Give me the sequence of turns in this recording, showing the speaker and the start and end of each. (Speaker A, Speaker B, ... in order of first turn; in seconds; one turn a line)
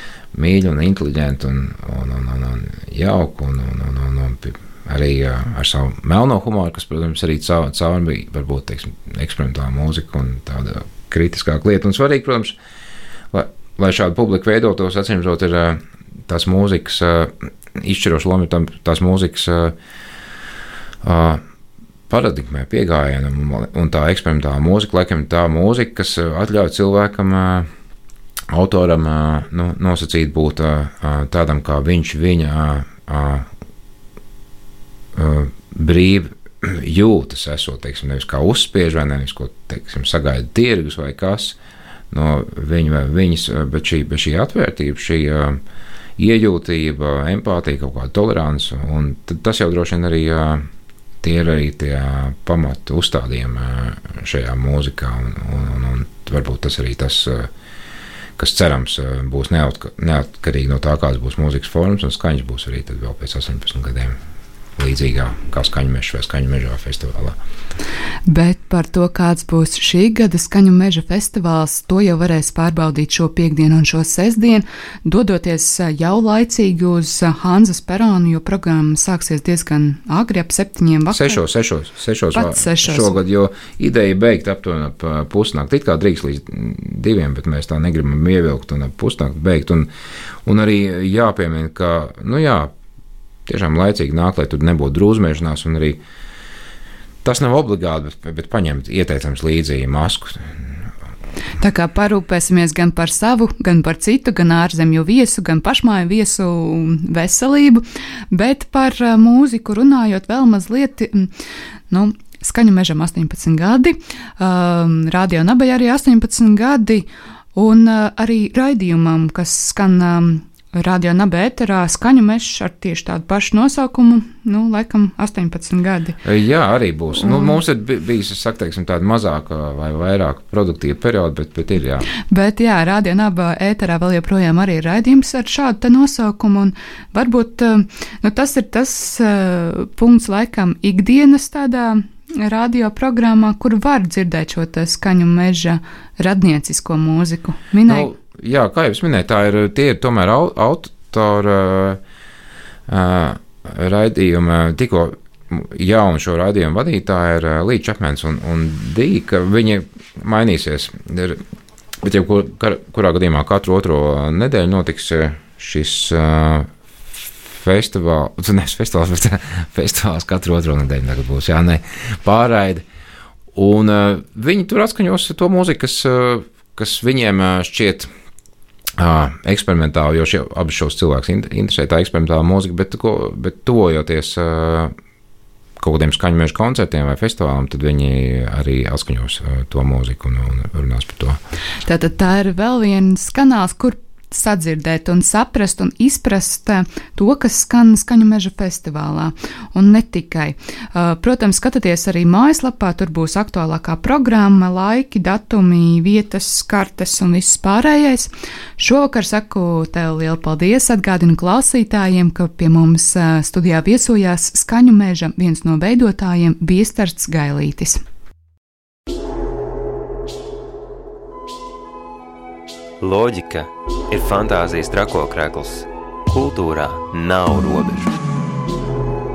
Speaker A: 0.3-12.6
Speaker A: 13.3-19.8
Speaker A: 21.0-21.4
Speaker A: 22.1-27.7
Speaker A: 28.5-33.5
Speaker A: 35.1-41.6
Speaker A: 42.1-45.6
Speaker A: 46.2-50.6
Speaker A: 51.2-57.5
Speaker A: 58.4-64.2
Speaker A: 64.8-67.4
Speaker B: 68.3-81.4
Speaker A: 81.1-89.9
Speaker B: 82.3-83.2
Speaker A: 90.4-92.7
Speaker A: 93.5-96.0
Speaker A: 97.2-100.8
Speaker B: 101.6-111.3
Speaker B: 111.9-126.2
Speaker A: 126.2-132.1
Speaker B: 127.1-127.6
Speaker B: 132.2-148.1
Speaker A: 147.9-152.0
Speaker A: 152.9-161.4
Speaker A: 162.0-172.8
Speaker A: 173.5-178.1
Speaker A: 179.0-184.9
Speaker A: 185.8-191.4
Speaker B: 191.8-218.0
Speaker C: 223.0-228.1